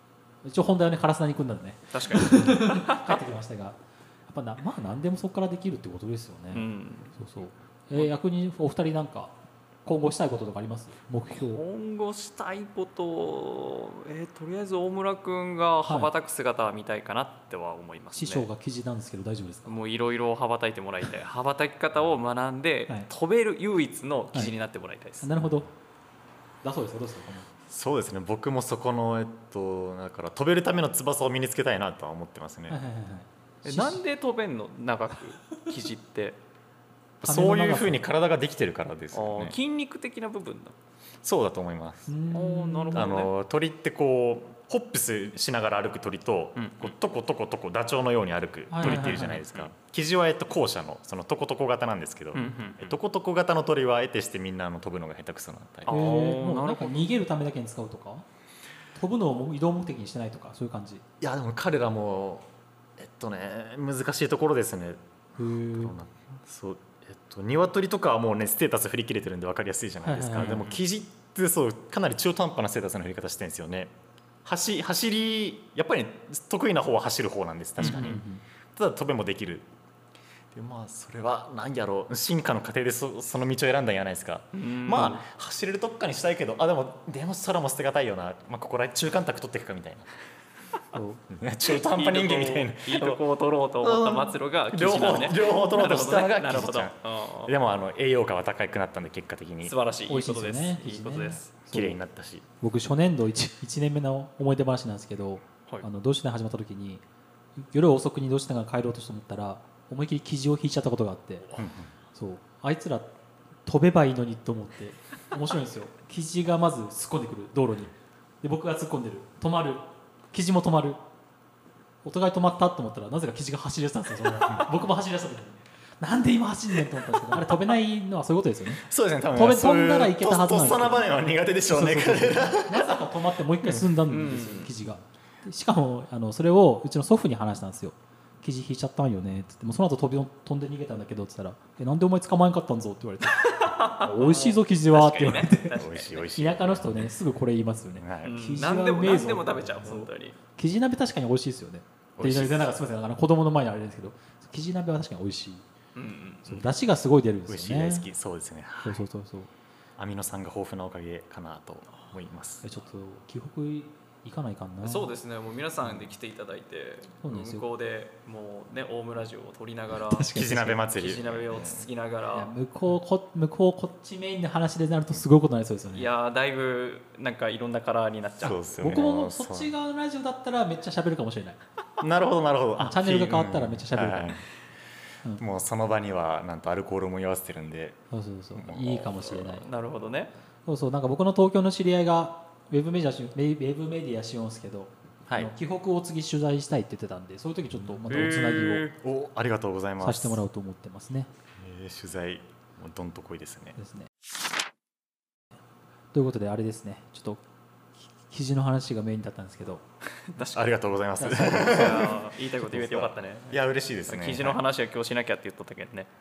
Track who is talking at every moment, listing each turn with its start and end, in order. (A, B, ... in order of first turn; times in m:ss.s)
0:00.4-0:09.3 A
0:01.9-0:03.2 B
0:06.5-0:07.1 B
0:09.8-0:11.6 A
0:11.4-0:18.5 B
0:15.8-0:16.1 A
0:18.1-0:19.8 A
0:19.7-0:25.3 B
0:25.2-0:25.7 A
0:26.6-0:27.5 A
0:27.7-0:32.8 C
0:32.7-0:34.0 A
0:33.6-0:36.4 B
0:37.2-0:38.0 A
0:37.2-0:39.6 C
0:39.1-0:40.8 B
0:41.2-0:42.1 C
0:42.1-0:43.1 A
0:42.3-0:43.3 B
0:42.9-0:56.1 C
0:46.6-0:46.9 B
0:48.7-0:49.4 A
0:48.8-0:49.7 B
0:52.3-0:53.0 B
0:55.9-0:57.1 B
0:55.9-0:58.3 A
0:58.9-1:01.0 A
1:01.2-1:05.0 C
1:05.4-1:06.0 A
1:05.7-1:13.9 C
1:10.0-1:10.7 A
1:14.4-1:18.2 C
1:17.8-1:18.4 A
1:17.8-1:18.2 B
1:18.7-1:19.7 C
1:20.5-1:30.1 C
1:24.6-1:25.2 B
1:30.9-1:31.2 A
1:31.3-1:33.2 C
1:31.8-1:37.5 B
1:33.8-1:39.8 C
1:39.6-1:41.5 B
1:40.1-1:42.0 A
1:41.7-1:42.4 C
1:42.6-1:47.0 A
1:47.6-1:51.4 A
1:51.6-1:51.9 C
1:52.1-1:53.1 A
1:53.6-2:01.0 A
2:02.0-2:11.1 A
2:04.4-2:04.7 C
2:08.8-2:13.0 C
2:11.7-2:25.8 A
2:14.1-2:14.7 B
2:23.4-2:26.3 B
2:25.8-2:27.2 C
2:26.4-2:35.6 A
2:28.0-2:28.4 C
2:28.2-2:30.4 B
2:32.2-2:32.8 C
2:35.9-2:36.7 B
2:36.4-2:38.1 A
2:37.5-2:39.0 C
2:38.8-2:39.5 A
2:40.0-2:42.6 C
2:42.6-2:45.1 A
2:44.8-2:52.5 B
2:47.2-2:47.6 A
2:50.0-2:50.8 A
2:50.3-2:51.9 C
2:52.3-2:56.1 A
2:55.9-2:58.7 B
2:58.4-2:59.7 C
2:58.4-3:01.6 A
3:02.0-3:04.4 C
3:02.8-3:04.4 A
3:05.4-3:08.0 C
3:08.1-3:09.7 A
3:08.6-3:09.6 C
3:09.2-3:10.3 B
3:10.6-3:18.9 A
3:18.1-3:19.0 B
3:19.0-3:20.4 C
3:20.0-3:21.3 A
3:21.6-3:23.8 C
3:23.8-3:24.1 A
3:26.1-3:27.4 A
3:28.3-3:29.8 A
3:30.3-3:36.1 B
3:30.5-3:34.6 C
3:31.2-3:31.6 A